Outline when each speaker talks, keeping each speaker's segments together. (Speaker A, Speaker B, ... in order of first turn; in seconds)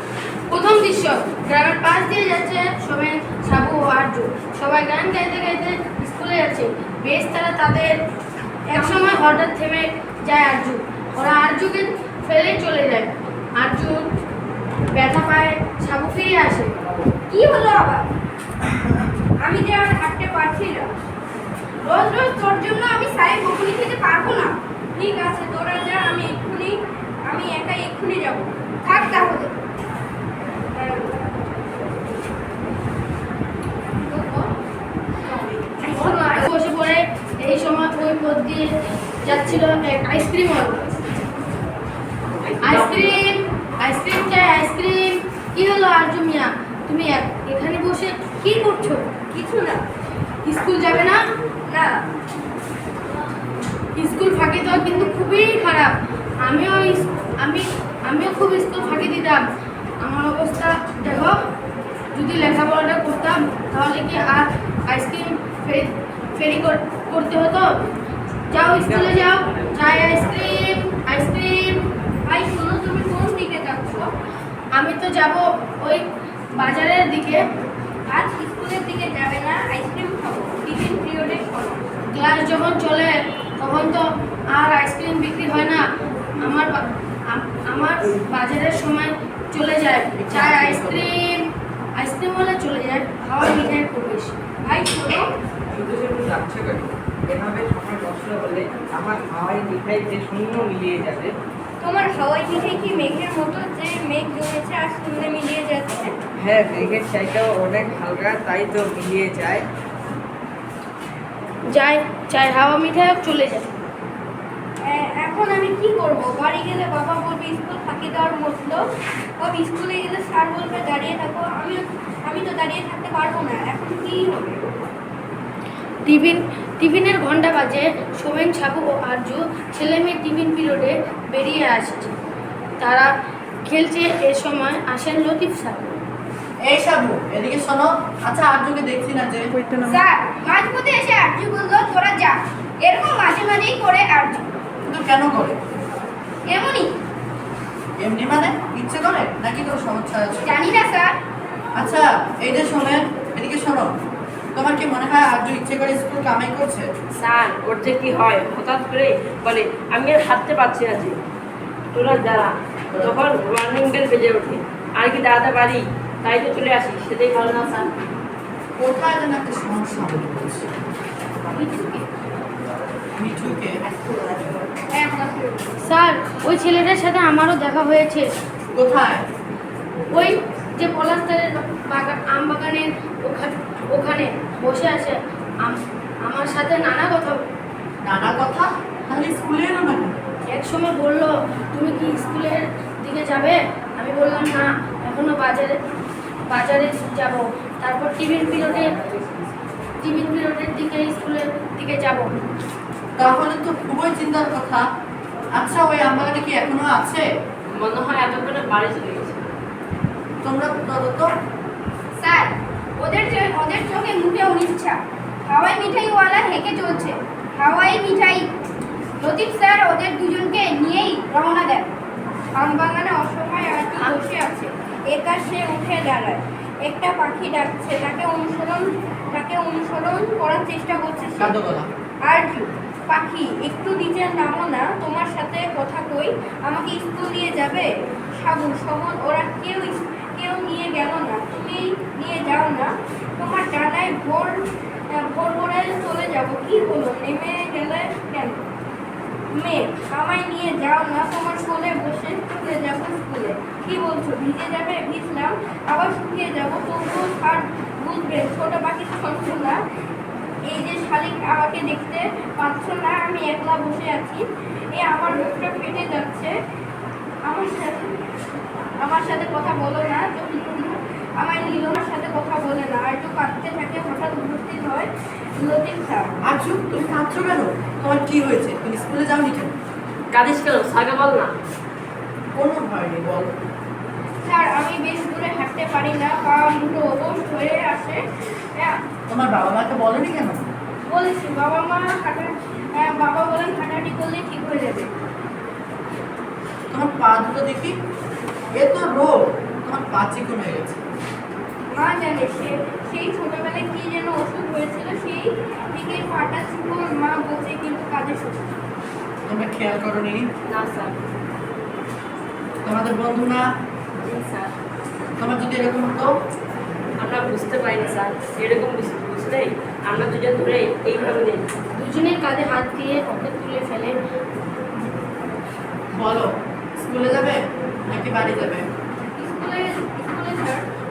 Speaker A: 0.5-8.0, 8.7-14.1, 14.9-16.7, 36.0-38.7, 39.2-40.8, 42.6-49.0, 50.5-51.2, 54.0-59.4, 60.0-61.4, 62.1-67.7, 68.5-71.8, 74.8-76.0, 76.6-77.4, 82.1-85.8, 86.4-91.5, 92.0-94.4, 111.7-113.7, 126.1-132.2, 132.8-133.1, 133.7-135.9, 171.5-172.1, 175.8-178.3, 180.1-187.4, 190.5-195.8, 196.5-198.9, 200.0-202.3, 321.9-324.2
Speaker B: 8.7-9.3, 17.3-18.1, 19.4-20.9, 21.8-29.6, 30.7-31.4, 33.9-34.5, 35.8-36.5, 49.3-49.8, 51.7-52.0, 72.3-74.1, 78.1-81.8, 94.7-95.3, 101.8-106.1, 114.8-118.8, 119.4-124.8, 139.8-144.5, 146.5-146.9, 150.5-151.1, 174.9-175.8, 212.2-218.5, 219.2-221.9, 222.6-231.6, 232.3-248.7, 249.5-259.8, 260.7-266.6, 267.5-268.2, 269.0-276.3, 284.4-288.2, 288.7-289.0, 291.1-295.1, 301.9-308.6, 329.4-330.9
Speaker C: 42.4-43.2, 157.2-161.2, 161.9-167.9, 173.9-174.5, 207.7-209.5, 280.3-281.5, 310.7-311.2, 314.2-314.8, 317.2-321.7
Speaker D: 68.7-70.2, 95.7-101.3, 106.4-109.7
Speaker E: 90.2-91.1, 136.7-139.5, 144.8-145.6, 148.0-150.5, 151.8-153.9, 154.5-156.9, 168.8-170.7, 173.2-173.8, 178.7-179.2, 188.0-190.2, 203.2-204.8, 205.6-207.2, 210.4-211.3, 231.4-231.9, 276.4-279.8, 282.6-283.5, 289.3-290.6, 296.9-298.0, 298.7-301.0, 309.5-310.5, 312.8-313.7, 315.4-316.3, 326.1-328.9